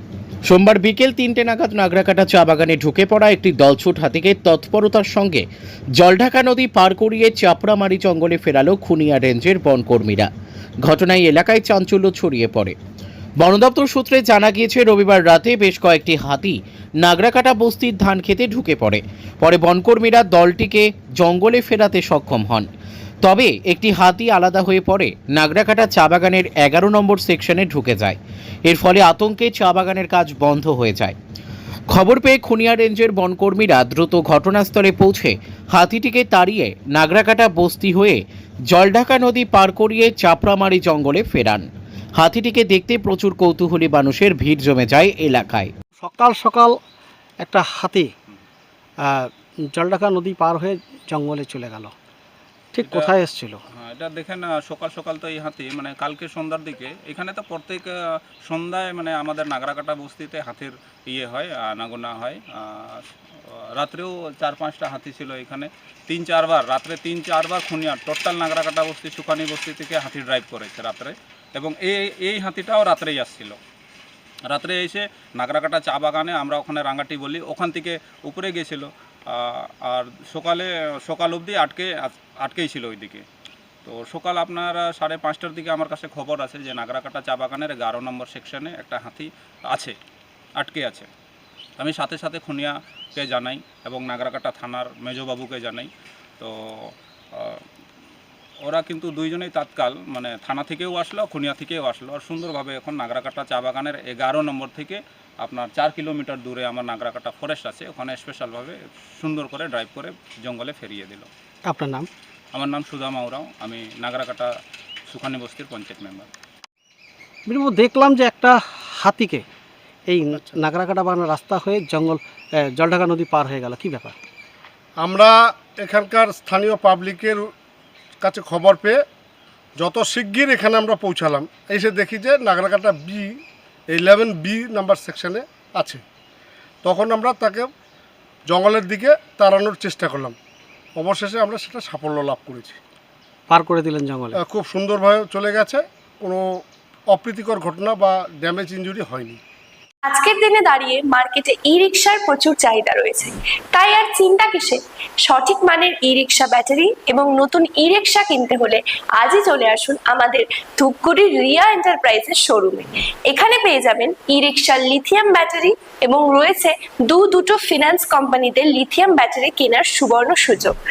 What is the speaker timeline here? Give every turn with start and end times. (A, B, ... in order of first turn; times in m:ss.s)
0:00.5-0:05.5 A
0:06.0-0:10.3 A
0:10.8-0:12.8 A
0:13.4-0:22.7 A
0:23.2-0:31.2 A
0:31.9-0:41.7 A
0:42.2-0:45.7 A
0:46.0-0:46.8 B
0:47.4-0:48.1 B
0:49.0-0:51.9 B
0:52.8-0:53.6 B
0:52.8-0:53.2 C
0:53.8-0:57.9 C
0:58.5-1:13.6 C
1:14.5-1:23.2 C
1:23.8-1:30.0 C
1:30.6-1:31.1 C
1:31.8-1:37.6 C
1:38.6-1:51.3 C
1:51.7-1:52.1 B
1:52.5-1:54.5 C
1:55.1-1:56.3 C
1:57.5-1:59.4 B
2:00.1-2:04.2 B
2:05.0-2:07.5 D
2:08.2-2:09.0 D
2:09.8-2:13.4 D
2:13.9-2:16.0 D
2:16.8-2:17.7 D
2:18.5-2:20.4 D
2:21.0-2:22.8 D
2:23.5-2:24.4 B
2:24.4-2:29.4 D
2:30.1-2:50.8 E